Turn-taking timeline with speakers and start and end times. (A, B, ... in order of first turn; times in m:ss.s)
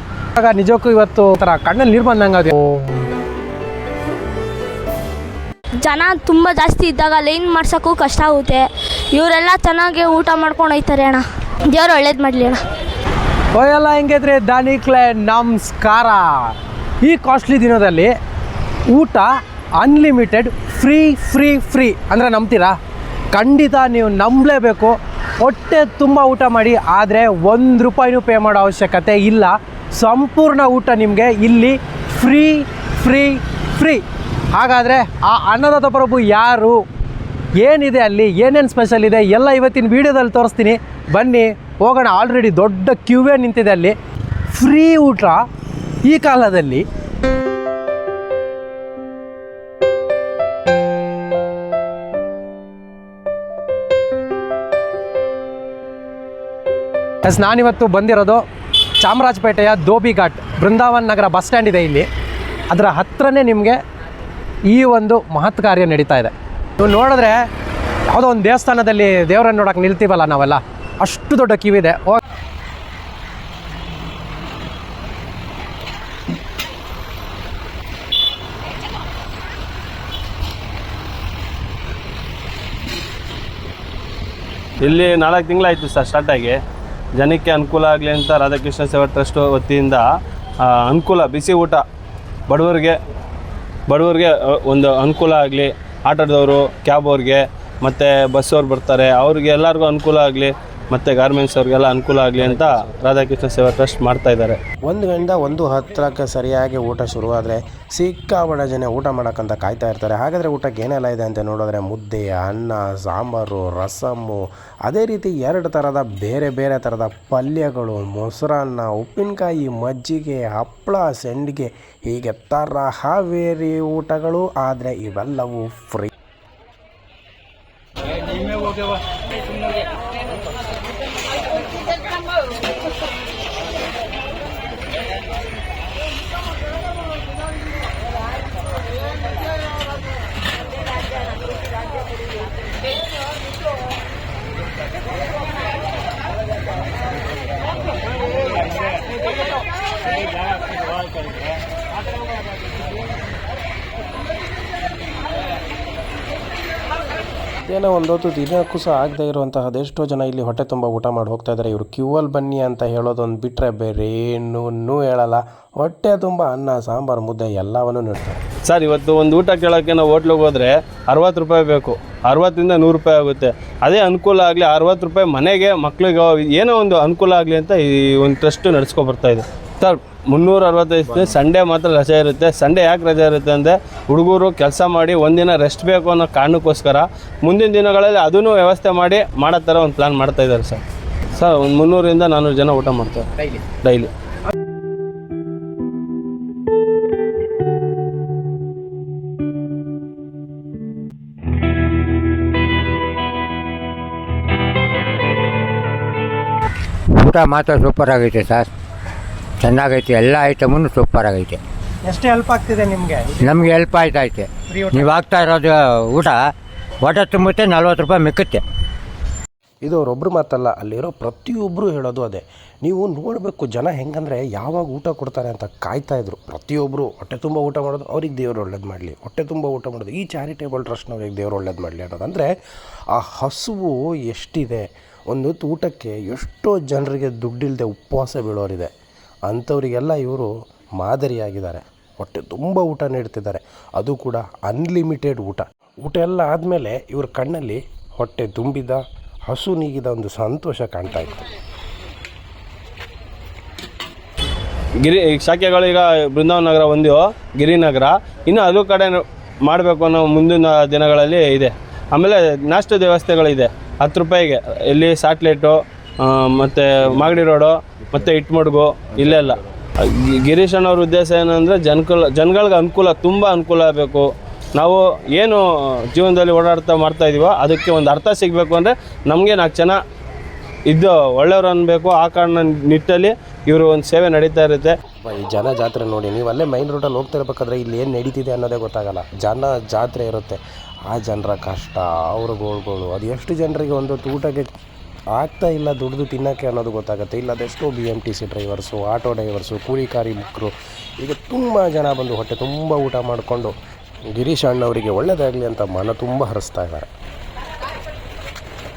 0:00.4-0:02.9 A
0:05.8-0:08.6 B
0:09.2-0:10.0 B
0:10.6-0:11.2 B
0:11.8-0:12.1 B
0:13.5-0:18.1 A
0:18.9-0:19.3 A
0:19.8-0:22.8 A
0:23.3-0:36.8 A
0:37.6-0:44.0 A
0:44.5-0:45.4 A
0:46.0-0:46.8 A
0:57.2-0:58.4 A
0:59.0-1:02.1 A
1:02.7-1:03.8 A
1:04.7-1:07.4 A
1:08.1-1:12.2 A
1:24.8-1:26.6 C
1:27.2-1:30.1 C
1:30.6-1:31.8 C
1:32.5-1:33.0 C
1:33.9-1:44.6 C
1:44.8-2:06.1 D
2:37.7-2:48.4 D
2:48.7-3:10.8 C
3:11.4-3:13.3 C
3:13.8-3:14.1 C
3:27.1-3:28.7 E
3:29.6-3:31.6 E
3:32.0-3:33.3 A
3:33.4-3:36.4 E
3:34.7-3:35.1 A
3:37.0-3:38.6 E
3:39.8-3:52.5 D
3:53.1-3:58.9 D
3:59.5-4:11.4 D
4:15.0-4:40.0 C
4:40.9-4:44.9 C
4:45.2-4:54.7 D
4:55.4-5:03.7 D
5:04.3-5:07.1 D